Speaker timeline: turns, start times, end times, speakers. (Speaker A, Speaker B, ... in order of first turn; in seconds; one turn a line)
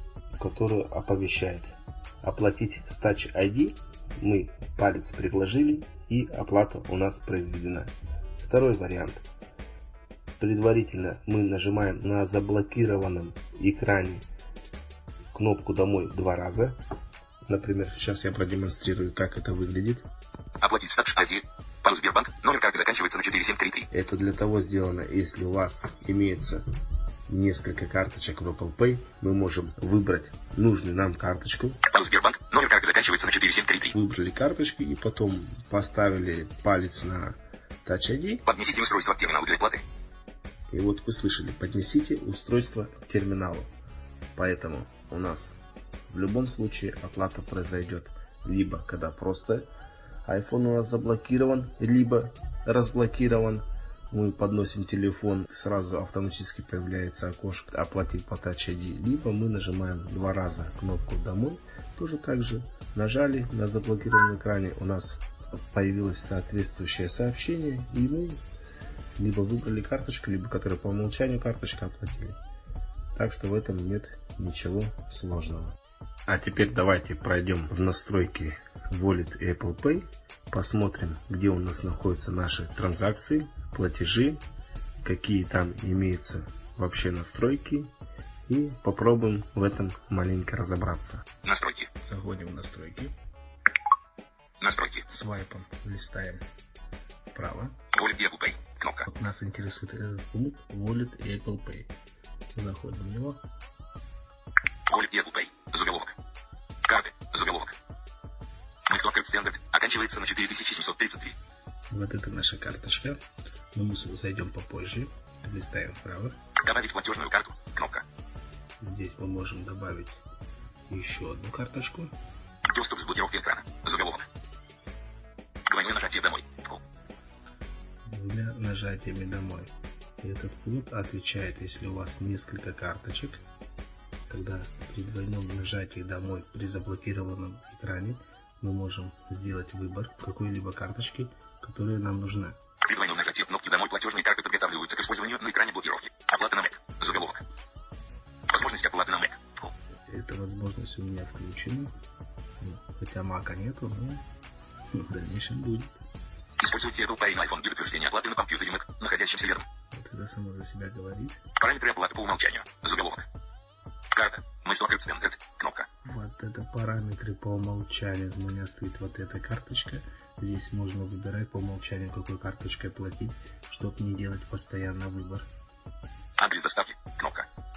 Speaker A: 0.3-9.2
Speaker A: 10.4-14.2
Speaker A: 15.3-16.8
Speaker A: 17.4-20.1
Speaker B: 20.6-23.9
Speaker A: 23.9-26.6
Speaker A: 27.3-31.8
Speaker B: 31.9-33.9
Speaker A: 33.9-38.4
Speaker B: 38.5-39.8
Speaker A: 40.7-43.7
Speaker A: 44.3-45.6
Speaker A: 46.1-49.7
Speaker A: 50.2-68.4
Speaker A: 69.1-72.4
Speaker A: 73.1-84.4
Speaker A: 85.0-87.9
Speaker A: 88.5-91.3
Speaker B: 91.4-91.9
Speaker A: 92.0-93.1
Speaker B: 94.6-95.0
Speaker A: 95.1-96.4
Speaker A: 97.3-97.8
Speaker B: 97.9-99.1
Speaker A: 99.0-101.9
Speaker A: 102.5-103.4
Speaker B: 104.9-106.1
Speaker B: 106.8-107.7
Speaker B: 108.8-111.4
Speaker A: 111.9-113.2
Speaker A: 113.7-116.4
Speaker B: 116.6-118.0
Speaker A: 118.8-120.2
Speaker A: 120.9-122.1
Speaker B: 122.7-124.3
Speaker B: 125.7-126.8
Speaker A: 128.0-133.4
Speaker A: 134.3-142.6
Speaker B: 142.8-147.4
Speaker B: 148.5-149.7
Speaker A: 150.1-151.9
Speaker A: 152.6-154.3
Speaker A: 154.9-156.0
Speaker B: 156.6-159.7
Speaker A: 159.9-161.4
Speaker B: 161.6-163.2
Speaker B: 164.1-165.9
Speaker A: 166.0-175.5
Speaker B: 176.4-177.5